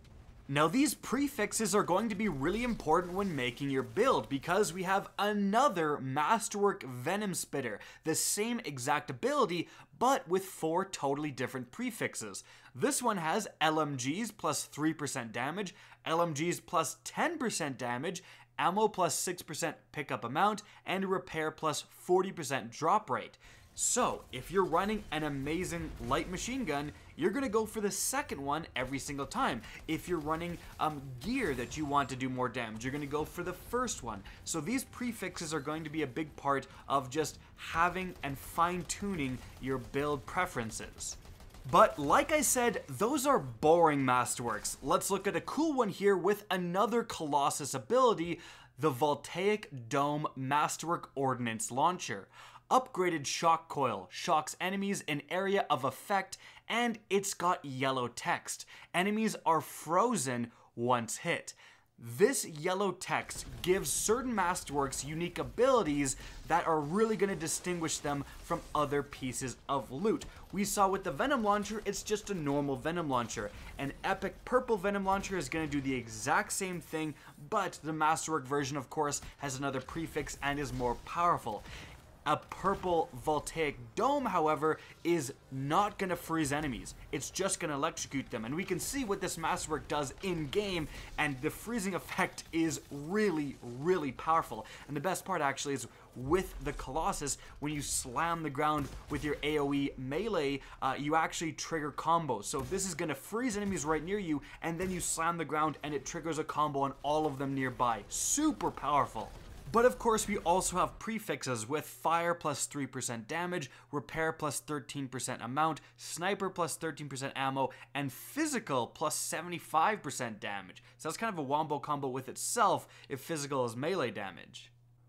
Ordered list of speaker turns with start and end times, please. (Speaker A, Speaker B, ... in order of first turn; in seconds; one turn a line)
Speaker A: 0.5-81.6
Speaker A: 82.2-124.7